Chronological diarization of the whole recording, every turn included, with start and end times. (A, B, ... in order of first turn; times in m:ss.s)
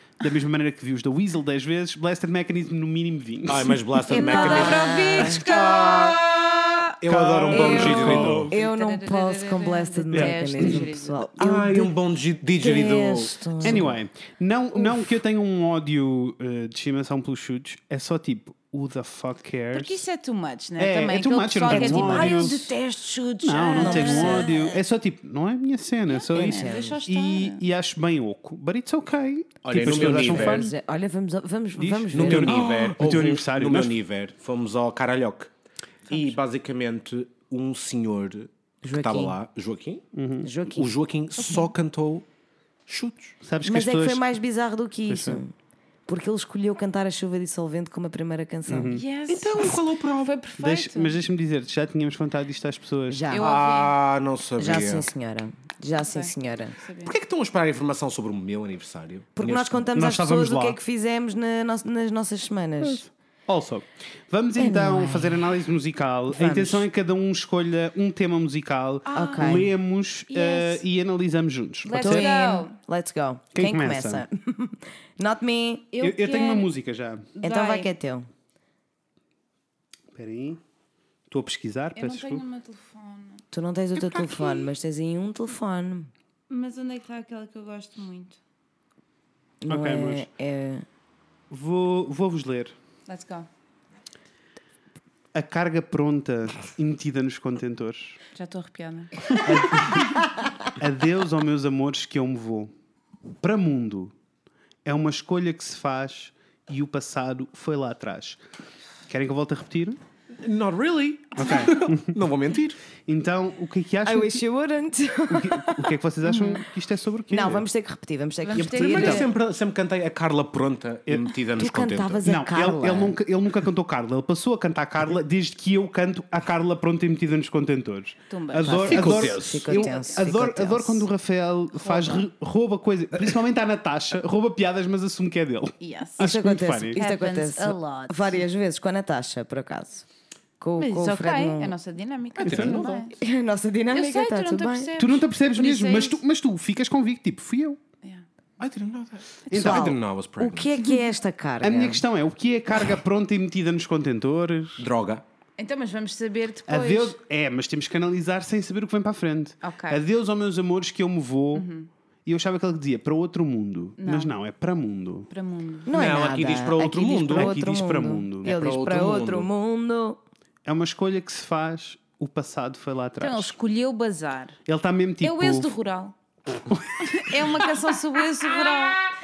0:00.2-0:03.8 A
0:03.5-0:08.5 B
0:04.1-0:05.4 C
0:04.1-0:06.8 D
0:07.1-0:08.5 A
0:07.5-0:11.9 C
0:08.5-0:11.3 D
0:10.1-0:10.8 A
0:11.4-0:13.9 B
0:12.6-0:13.8 C
0:13.6-0:20.0 A
0:19.7-0:24.8 D
0:20.8-0:22.7 A
0:21.7-0:22.7 C
0:23.4-0:30.7 A
0:23.6-0:24.6 C
0:26.1-0:27.6 D
0:26.3-0:27.0 C
0:29.6-0:30.6 B
0:29.8-0:32.6 C
0:31.8-0:34.0 A
0:32.1-0:35.5 B
0:36.1-0:36.3 D
0:36.1-0:40.0 B
0:38.8-0:39.4 C
0:40.1-0:40.5 A
0:40.4-0:40.9 C
0:40.7-0:42.3 B
0:41.4-0:41.7 D
0:42.9-0:43.3 B
0:43.4-0:44.2 A
0:43.6-0:45.5 C
0:45.1-0:45.4 A
0:46.1-0:49.0 C
0:48.7-0:49.0 A
0:48.9-0:51.2 D
0:49.3-0:50.3 B
0:50.6-0:53.2 A
0:53.1-0:53.6 C
0:53.3-0:54.0 D
0:53.4-0:55.1 B
0:54.6-0:56.8 C
0:56.0-0:57.2 D
0:57.0-0:59.8 B
0:59.4-1:03.0 C
0:59.9-1:00.8 A
1:02.8-1:12.3 A
1:04.6-1:05.4 C
1:06.3-1:06.8 C
1:09.1-1:09.6 D
1:09.1-1:09.7 C
1:10.3-1:10.8 D
1:11.8-1:12.7 D
1:12.0-1:15.9 C
1:13.5-1:14.2 A
1:15.9-1:16.7 D
1:16.0-1:17.3 A
1:17.4-1:17.9 D
1:17.4-1:18.3 C
1:20.1-1:20.6 A
1:21.3-1:22.4 A
1:21.9-1:23.4 D
1:23.5-1:26.1 C
1:24.0-1:24.5 B
1:26.5-1:28.4 D
1:29.6-1:30.8 C
1:29.7-1:30.3 A
1:31.5-1:32.7 A
1:33.1-1:33.5 D
1:35.3-1:38.2 A
1:38.3-1:39.4 D
1:39.4-1:40.1 A
1:40.8-1:42.7 A
1:43.4-1:44.1 A
1:44.8-1:48.4 A
1:49.1-1:50.0 A
1:50.3-1:52.8 B
1:51.4-1:52.2 A
1:53.0-1:54.4 A
1:54.0-1:55.9 C
1:55.3-1:57.6 A
1:56.2-1:56.6 D
1:57.3-1:59.3 C
1:58.4-1:59.3 D
1:58.5-2:02.2 B
2:01.6-2:03.2 C
2:02.2-2:17.0 A
2:08.3-2:08.9 D
2:08.6-2:11.0 C
2:08.8-2:09.9 B
2:11.7-2:12.3 D
2:15.8-2:16.3 D
2:16.2-2:20.0 C
2:17.0-2:18.4 D
2:20.6-2:21.7 C
2:20.8-2:23.2 D
2:22.4-2:23.0 A
2:22.4-2:23.0 B
2:23.1-2:24.9 C
2:23.9-2:26.2 D
2:25.0-2:27.8 A
2:28.6-2:30.7 B
2:29.5-2:29.9 A
2:29.5-2:32.0 C
2:31.6-2:34.9 A
2:34.8-2:35.2 B
2:35.6-2:37.1 D
2:36.7-2:41.7 A
2:39.6-2:40.0 D
2:41.5-2:41.9 D
2:42.2-2:45.3 A
2:44.0-2:44.3 D
2:45.3-2:45.9 D
2:45.8-2:50.2 C
2:45.9-2:47.6 B
2:47.3-2:48.7 A
2:48.4-2:49.5 B
2:50.6-2:53.5 A
2:53.2-2:54.6 D
2:54.7-2:55.7 A
2:55.2-2:56.1 D
2:56.6-2:57.5 A
2:57.0-2:59.1 D